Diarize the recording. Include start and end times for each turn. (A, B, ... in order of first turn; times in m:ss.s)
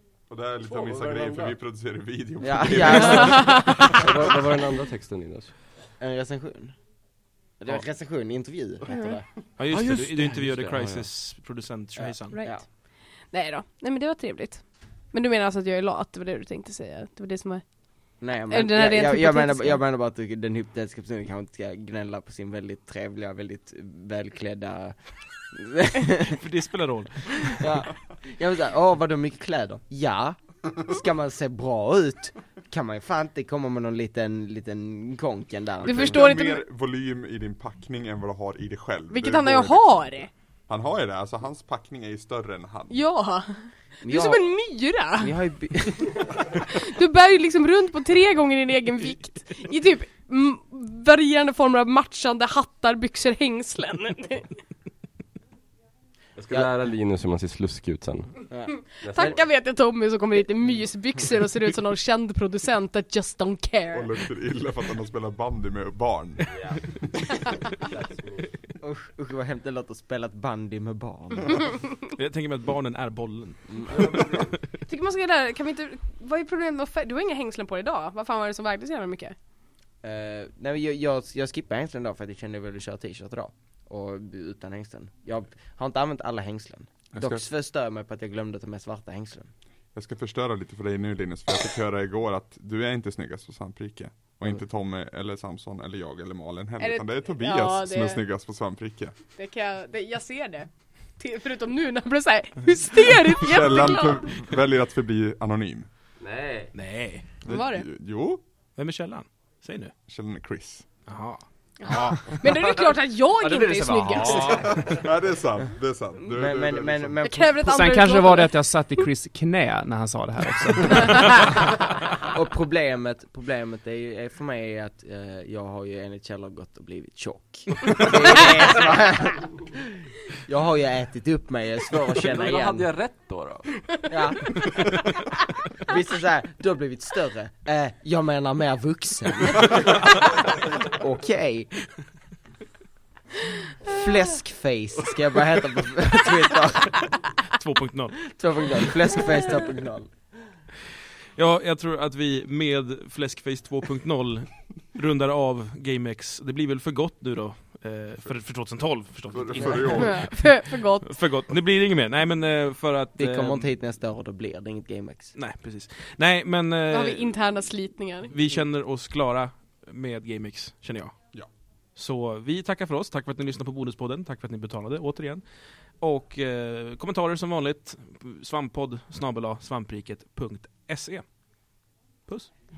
0:00.3-0:03.8 A
0:00.6-0:01.6 B
0:02.4-0:04.3 C
0:03.2-0:03.9 D
0:03.9-0:05.5 B
0:06.0-0:06.8 C
0:07.6-0:09.2 C
0:08.9-0:09.1 D
0:09.6-0:12.4 E
0:09.7-0:11.1 B
0:12.0-0:12.6 C
0:12.3-0:12.6 D
0:13.3-0:17.6 D
0:18.2-0:25.0 C
0:18.5-0:19.8 D
0:25.5-0:26.4 C
0:26.2-0:27.8 E
0:27.4-0:36.4 C
0:35.8-0:36.6 D
0:35.8-0:40.2 A
0:39.1-0:40.3 D
0:40.7-0:43.0 A
0:42.9-0:45.4 D
0:44.0-0:44.5 C
0:45.2-0:46.3 C
0:45.9-0:54.5 D
0:56.4-0:58.3 B
0:58.5-0:59.4 C
0:58.9-1:04.1 D
0:59.0-0:59.4 B
1:03.9-1:06.4 A
1:07.9-1:08.5 B
1:08.8-1:11.7 C
1:12.1-1:14.6 E
1:13.7-1:14.3 C
1:14.9-1:19.3 D
1:20.0-1:29.5 C
1:27.1-1:27.4 A
1:29.9-1:39.1 A
1:36.8-1:38.2 D
1:39.4-1:44.4 D
1:43.4-1:45.9 A
1:46.2-1:46.7 B
1:46.7-1:47.3 E
1:47.4-1:47.8 D
1:47.4-1:48.4 A
1:48.8-1:49.9 E
1:50.1-1:50.8 A
1:51.1-1:52.4 E
1:51.8-1:55.0 D
1:53.6-1:54.8 E
1:53.8-1:54.9 B
1:54.6-1:57.2 A
1:56.2-1:57.8 C
1:57.2-1:58.6 D
1:57.7-2:01.3 F
2:00.9-2:01.6 D
2:02.2-2:09.7 C
2:10.4-2:12.9 C
2:12.2-2:13.7 B
2:14.1-2:15.0 C
2:15.8-2:21.7 C
2:23.8-2:27.1 C
2:27.5-2:28.4 E
2:28.3-2:30.1 C
2:31.4-2:43.7 E
2:39.3-2:40.3 A
2:39.8-2:41.2 D
2:43.2-2:45.3 C
2:45.4-2:47.4 E
2:46.9-2:48.3 D
2:48.3-2:51.1 E
2:52.0-2:55.4 E
2:56.0-3:01.2 E